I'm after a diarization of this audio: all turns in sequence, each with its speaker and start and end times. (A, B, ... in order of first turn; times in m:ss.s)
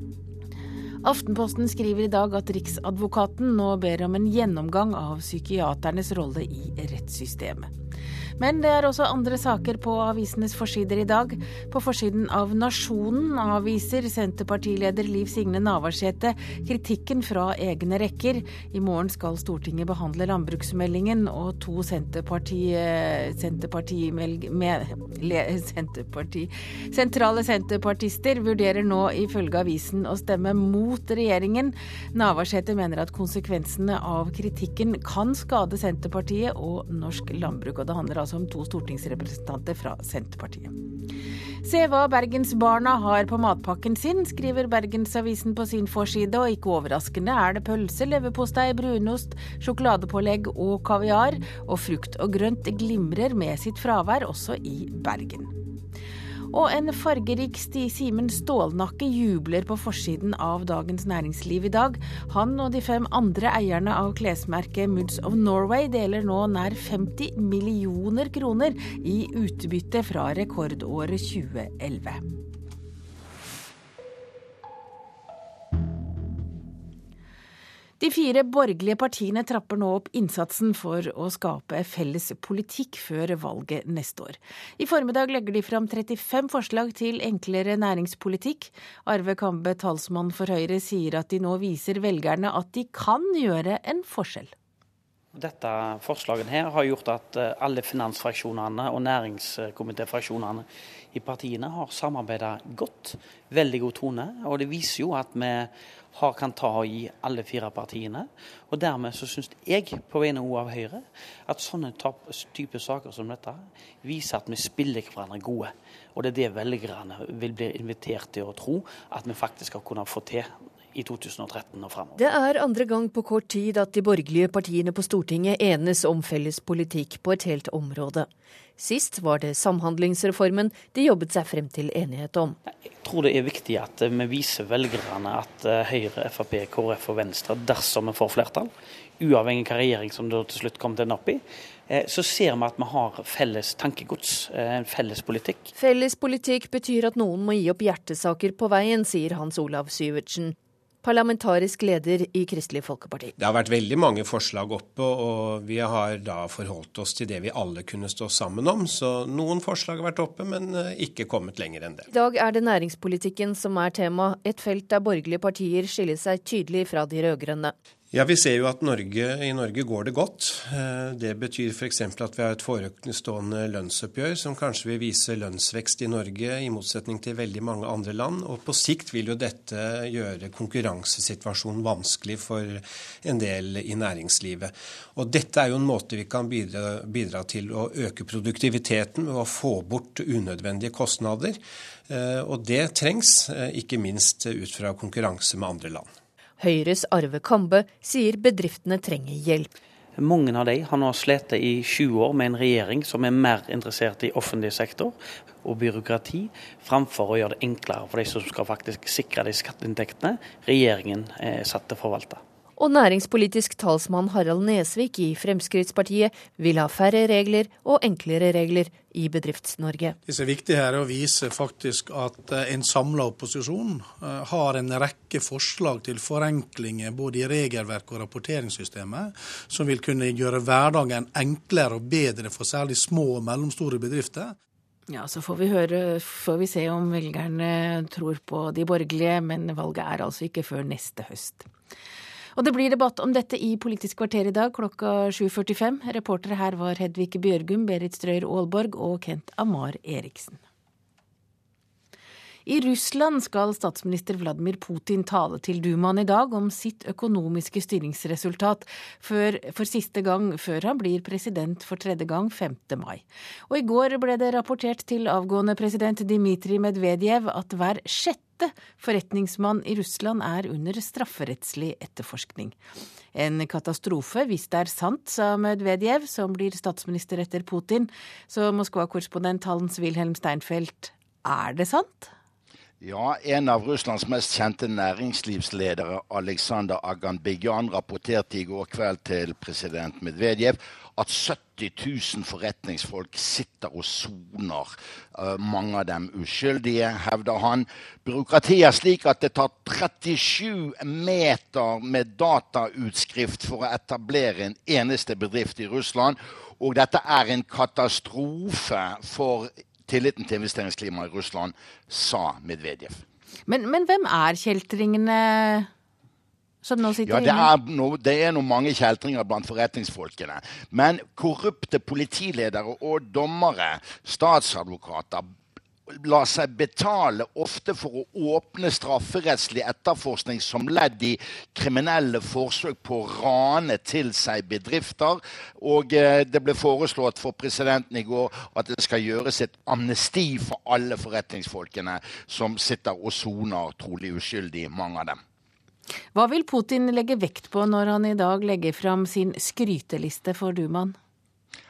0:01.0-0:07.7 A
0:08.4-0:40.8 A
0:41.6-0:55.5 A
0:56.5-1:12.2 A
1:18.0-1:34.5 A
1:35.4-2:02.2 B
2:02.3-2:08.3 C
2:08.8-2:12.6 C
2:12.8-2:25.7 B
2:25.8-2:33.3 C
2:33.4-2:42.1 D
2:42.1-2:47.7 C
2:48.1-3:16.1 D
3:16.6-3:19.7 C
3:20.2-3:32.4 B
3:32.8-3:40.2 C
3:40.3-3:54.6 E
3:55.1-4:01.7 A
4:02.6-4:10.6 A
4:12.7-4:32.8 A
4:33.3-4:42.3 A
4:43.0-5:13.2 F
5:13.7-5:15.9 A
5:16.8-5:17.7 A
5:17.3-5:25.5 F
5:26.1-5:45.4 F
5:46.4-5:51.2 A